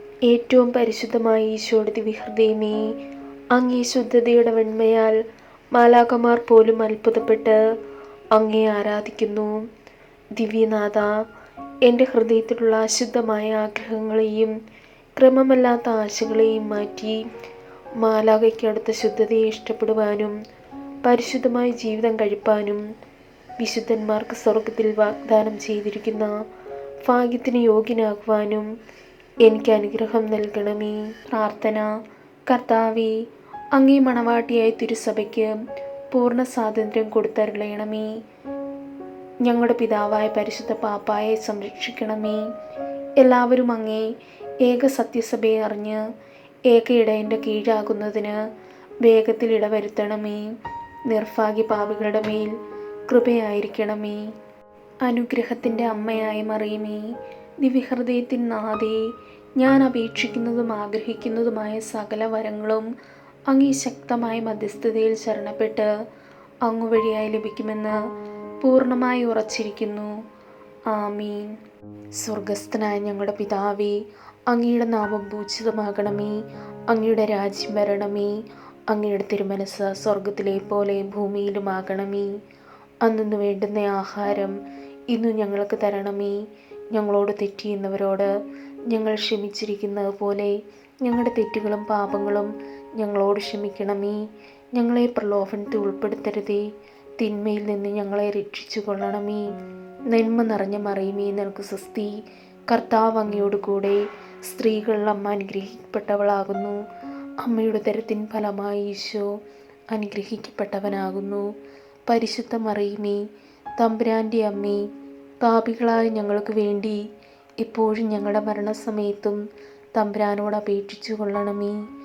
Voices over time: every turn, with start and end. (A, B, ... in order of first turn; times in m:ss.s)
0:00.3-0:02.8 A
0:03.5-0:05.2 A
0:05.7-0:07.6 A
0:08.3-0:09.6 A
0:10.4-0:11.1 A
0:11.9-0:14.5 A
0:15.2-0:17.2 A
0:18.0-0:20.4 A
0:21.0-0:22.8 A
0:23.6-0:26.3 A
0:27.0-0:28.7 A
0:29.4-0:31.9 A
0:32.5-0:33.1 A
0:33.8-0:35.5 A
0:36.1-0:38.1 A
0:39.4-0:42.4 A
0:43.2-0:44.1 A
0:44.6-0:46.0 A
0:46.7-0:48.4 A
0:49.0-0:50.5 A
0:51.1-0:52.5 A
0:53.1-0:54.2 A
0:55.0-0:57.0 A
0:57.6-0:59.0 A
0:59.6-1:02.9 A
1:03.5-1:05.9 A
1:06.6-1:08.0 A
1:08.6-1:10.1 A
1:10.9-1:11.5 A
1:12.2-1:14.0 A
1:14.5-1:16.4 A
1:16.9-1:18.3 A
1:18.9-1:22.3 A
1:23.0-1:24.6 A
1:25.1-1:26.4 A
1:26.9-1:28.3 A
1:28.9-1:34.2 A
1:34.7-1:36.6 A
1:37.2-1:39.4 A
1:40.1-1:42.1 A
1:42.7-1:46.8 A
1:47.4-1:49.3 A
1:49.9-1:51.4 A
1:52.1-1:53.2 A
1:53.8-1:54.8 A
1:55.4-1:57.0 A
1:57.6-1:59.4 A
2:00.0-2:01.8 A